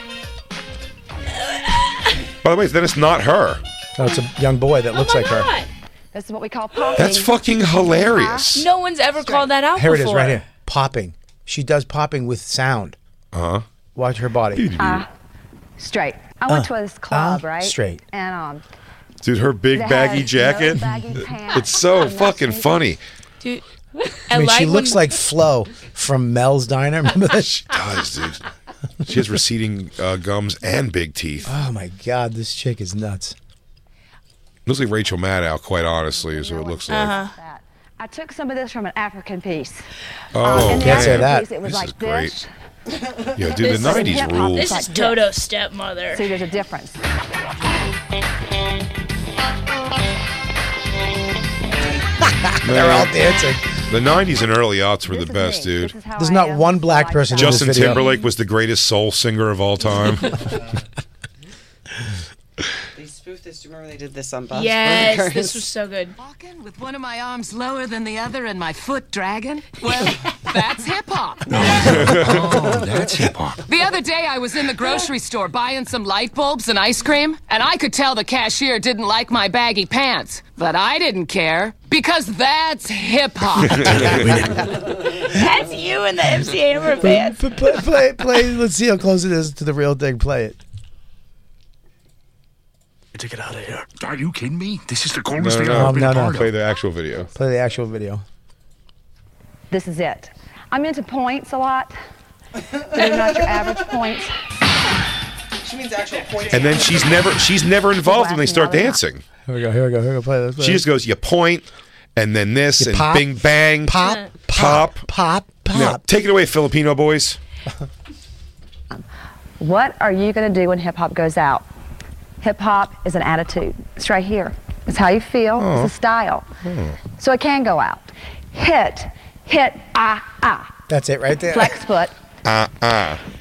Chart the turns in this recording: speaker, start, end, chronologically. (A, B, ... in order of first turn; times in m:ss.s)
0:01.4-0:02.1 A
0:02.4-0:03.6 B
0:04.0-0:05.5 C
0:04.9-0:05.7 A
0:06.1-0:08.5 D
0:07.0-0:08.7 B
0:08.5-0:10.4 A
0:09.2-0:09.5 D
0:09.7-0:13.0 C
0:13.3-0:13.6 B
0:14.0-0:14.8 C
0:14.5-0:15.0 B
0:14.8-0:15.1 D
0:15.8-0:18.6 D
0:16.5-0:18.0 C
0:19.2-0:20.8 B
0:19.7-0:22.7 D
0:21.5-0:23.0 B
0:23.4-0:25.1 A
0:24.3-0:27.8 C
0:27.7-0:28.4 B
0:29.0-0:31.5 B
0:31.4-0:33.4 C
0:34.6-0:37.2 B
0:35.4-0:39.8 D
0:36.9-0:37.3 A
0:40.3-0:42.4 B
0:40.4-0:42.5 D
0:40.6-0:41.5 C
0:43.4-0:44.7 B
0:43.6-0:45.2 D
0:43.6-0:46.2 A
0:46.1-0:47.0 D
0:52.2-0:53.6 C
0:52.6-0:53.1 B
0:53.9-0:55.9 B
0:55.1-0:57.8 D
0:56.2-0:58.0 C
0:57.4-1:00.6 B
0:57.8-0:58.3 A
1:02.9-1:05.6 E
1:04.5-1:06.2 A
1:06.2-1:12.7 F
1:11.5-1:13.6 G
1:11.8-1:12.4 B
1:13.6-1:24.3 F
1:24.0-1:24.5 C
1:25.1-1:27.4 A
1:27.0-1:30.6 C
1:33.1-1:36.5 G
1:35.3-1:37.3 B
1:35.7-1:36.5 C
1:37.3-1:38.2 C
1:39.7-1:42.0 D
1:42.9-1:44.3 D
1:45.6-1:47.1 E
1:46.5-1:49.2 B
1:48.0-1:49.0 D
1:49.5-1:50.8 C
1:50.6-1:54.0 B
1:52.8-1:56.0 C
1:54.5-1:55.1 B
1:55.7-1:57.4 B
1:59.6-2:01.6 D
2:02.4-2:06.4 D
2:05.6-2:05.9 B
2:06.6-2:07.0 B
2:07.1-2:10.8 D
2:10.9-2:11.8 C
2:11.5-2:12.1 D
2:12.4-2:13.2 B